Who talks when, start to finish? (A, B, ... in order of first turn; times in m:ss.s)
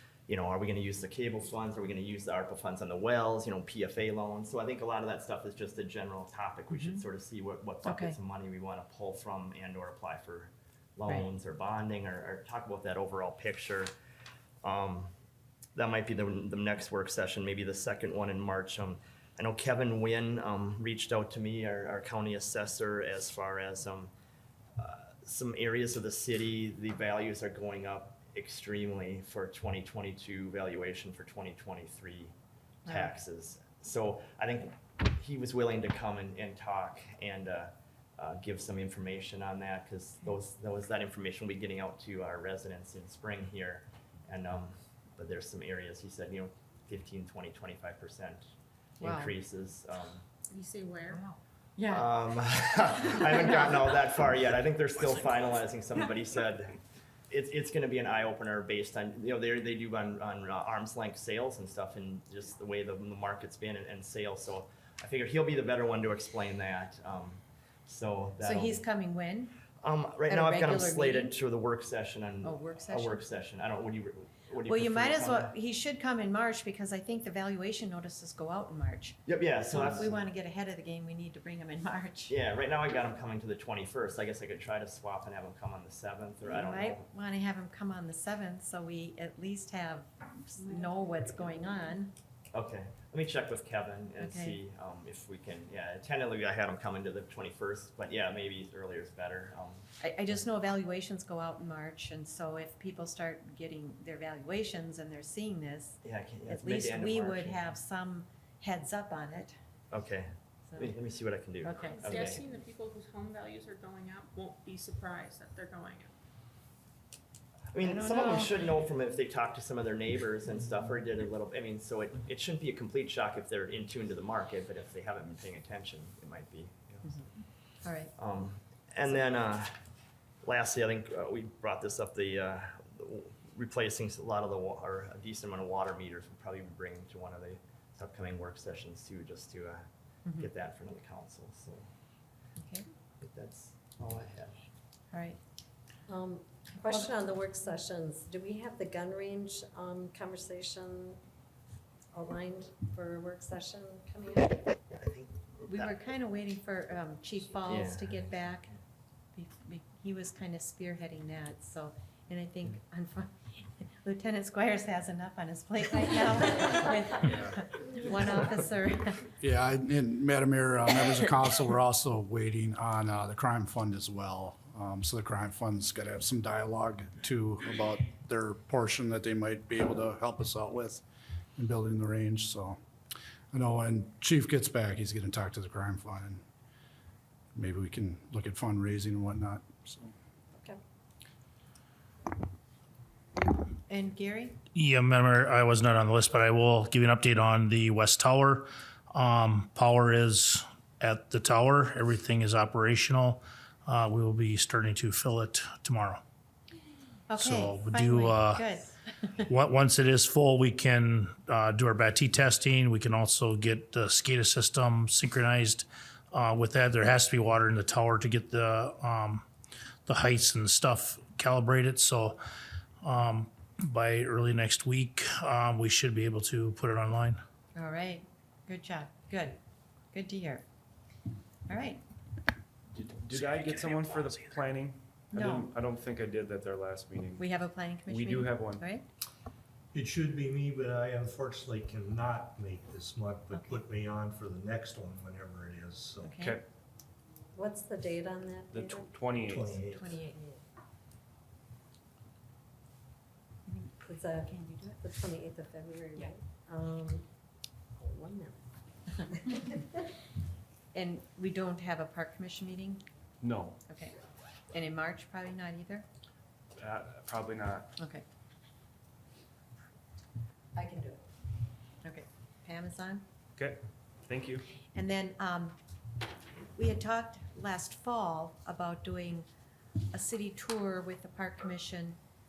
0:00.3-0:13.9 A
0:06.7-0:07.0 B
0:07.8-0:08.2 B
0:14.6-0:15.1 A
0:15.7-0:24.1 A
0:24.8-0:32.3 A
0:32.8-0:33.1 B
0:32.8-0:48.4 A
0:49.0-0:49.4 B
0:49.0-0:50.2 A
0:50.5-0:51.2 C
0:51.9-1:08.8 A
1:08.4-1:09.6 B
1:09.8-1:15.5 A
1:10.2-1:11.4 B
1:12.4-1:13.2 B
1:14.6-1:22.3 B
1:19.2-1:20.2 A
1:22.3-1:27.0 A
1:26.4-1:32.1 B
1:32.5-1:39.9 A
1:34.2-1:34.6 B
1:40.0-1:49.6 B
1:46.0-1:47.6 A
1:49.9-1:52.4 A
1:50.7-1:50.9 B
1:51.6-1:52.1 B
1:51.8-1:56.1 C
1:57.7-2:07.3 A
1:57.8-1:58.7 B
2:07.0-2:08.1 B
2:08.1-2:09.7 A
2:10.4-2:19.8 A
2:20.2-2:20.5 B
2:20.4-2:21.9 A
2:22.6-2:22.8 B
2:23.2-2:24.6 A
2:25.1-2:25.4 B
2:26.1-2:31.2 D
2:26.8-2:27.1 B
2:32.1-2:34.7 D
2:34.9-2:35.9 A
2:35.7-2:38.7 B
2:37.6-2:38.7 A
2:39.3-2:49.3 B
2:49.4-3:01.0 E
3:01.6-3:02.8 E
3:03.5-3:06.4 E
3:07.5-3:10.1 E
3:13.9-3:14.6 B
3:14.7-3:26.2 F
3:27.3-3:29.5 B
3:27.4-3:28.6 F
3:29.5-3:39.4 F
3:40.1-3:42.4 F
3:43.0-3:47.4 F
3:47.7-3:49.6 B
3:50.1-3:50.6 B
3:51.7-3:52.0 B
3:52.9-3:57.5 G
3:55.3-3:55.7 B
3:57.4-3:59.0 B
3:58.0-3:58.8 G
3:59.9-4:06.4 H
4:03.5-4:03.8 B
4:06.2-4:06.6 B
4:07.5-4:09.1 D
4:08.7-4:09.6 G
4:09.3-4:10.2 H
4:10.0-4:10.4 B
4:13.7-4:14.0 B
4:14.0-4:17.2 D
4:14.5-4:14.9 B
4:18.0-4:18.7 D
4:19.5-4:19.9 D
4:20.9-4:23.0 B
4:23.4-4:23.8 G
4:23.9-4:24.1 B
4:24.7-4:26.1 B
4:26.8-4:27.9 G
4:28.0-4:28.2 B
4:30.8-4:31.2 B
4:32.0-4:33.2 B
4:33.6-4:34.7 G
4:34.9-4:35.8 B
4:36.7-4:39.4 B
4:40.1-4:42.2 B